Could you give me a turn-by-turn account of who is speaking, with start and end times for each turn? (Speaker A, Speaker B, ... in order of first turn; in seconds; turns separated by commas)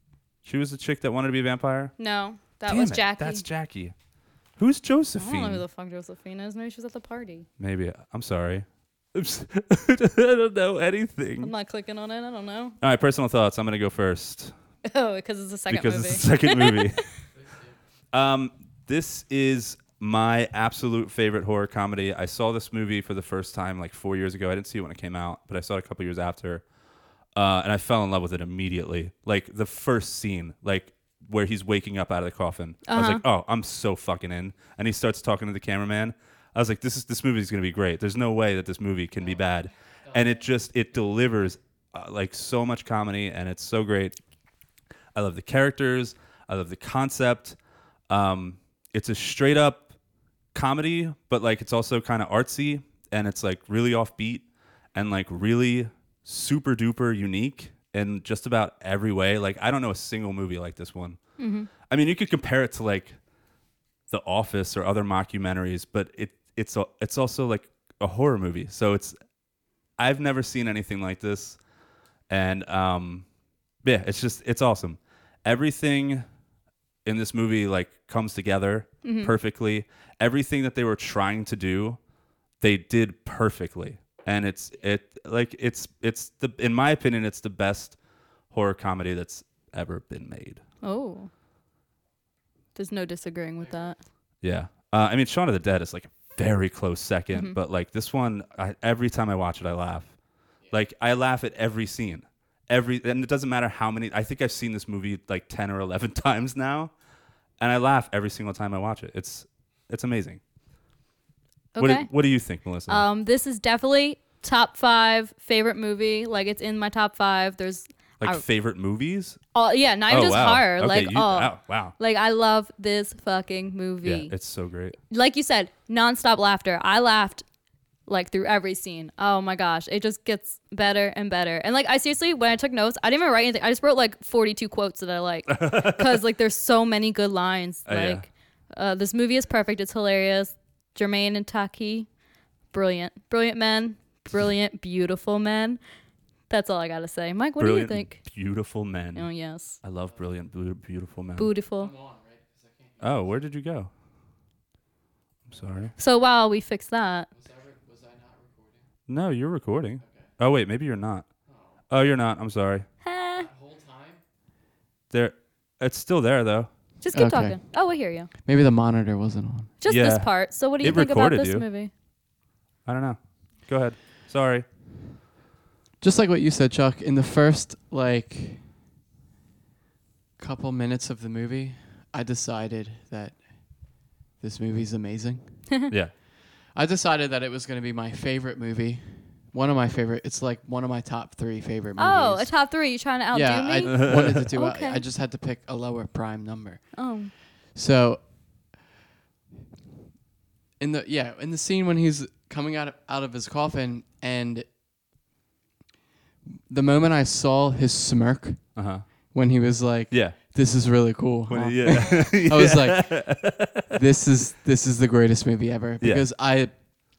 Speaker A: 0.5-1.9, Speaker B: 2.0-3.4, Speaker A: 2.7-3.9, Speaker A: 4.6-5.6, Speaker B: 5.2-7.5, Speaker A: 7.6-11.5, Speaker B: 11.4-12.8, Speaker A: 12.8-14.5, Speaker B: 14.8-17.0, Speaker A: 15.7-17.0, Speaker A: 18.1-26.6, Speaker A: 27.4-44.2, Speaker B: 32.9-33.2, Speaker A: 45.1-47.6, Speaker A: 48.1-49.9, Speaker A: 50.5-54.4, Speaker A: 55.0-61.2, Speaker B: 61.4-61.7, Speaker A: 61.9-63.2, Speaker A: 64.1-69.2, Speaker A: 70.0-71.6, Speaker A: 72.3-73.2, Speaker A: 73.8-76.3, Speaker A: 77.1-82.0, Speaker B: 79.0-79.3, Speaker A: 82.6-88.0, Speaker A: 88.5-90.6, Speaker B: 90.8-91.3, Speaker B: 92.8-94.0, Speaker A: 94.4-100.1, Speaker B: 97.3-97.6, Speaker A: 100.7-106.9, Speaker A: 107.6-110.4, Speaker B: 111.8-112.1, Speaker A: 111.8-113.0, Speaker B: 112.9-118.4, Speaker A: 118.2-119.4, Speaker B: 119.5-124.3, Speaker A: 120.1-121.9, Speaker A: 124.0-125.0, Speaker B: 125.1-127.4, Speaker B: 128.1-142.1, Speaker A: 135.5-136.1, Speaker A: 137.9-138.2, Speaker B: 142.7-145.8, Speaker B: 146.5-148.2, Speaker A: 147.6-149.3, Speaker B: 149.2-149.8, Speaker A: 149.8-151.5, Speaker B: 151.4-151.9, Speaker C: 152.1-152.6, Speaker A: 153.0-153.9, Speaker A: 155.5-155.9, Speaker B: 156.0-157.3, Speaker A: 159.1-161.3, Speaker A: 161.9-162.9, Speaker B: 163.0-163.5, Speaker C: 163.4-164.2, Speaker A: 165.1-166.7, Speaker B: 167.0-168.3, Speaker C: 167.1-167.6, Speaker C: 168.4-169.7, Speaker B: 169.8-171.9, Speaker A: 169.9-171.7, Speaker A: 172.9-174.7, Speaker C: 176.0-178.6, Speaker C: 180.4-183.4, Speaker C: 184.4-185.4, Speaker C: 186.7-192.5, Speaker B: 192.0-195.0, Speaker C: 193.3-197.0, Speaker A: 193.9-194.4, Speaker B: 197.0-197.3, Speaker C: 197.8-198.2, Speaker C: 200.8-204.7, Speaker C: 206.7-208.6, Speaker A: 208.8-209.1, Speaker C: 209.3-213.3, Speaker A: 210.1-210.4, Speaker A: 211.5-213.9, Speaker C: 213.9-216.7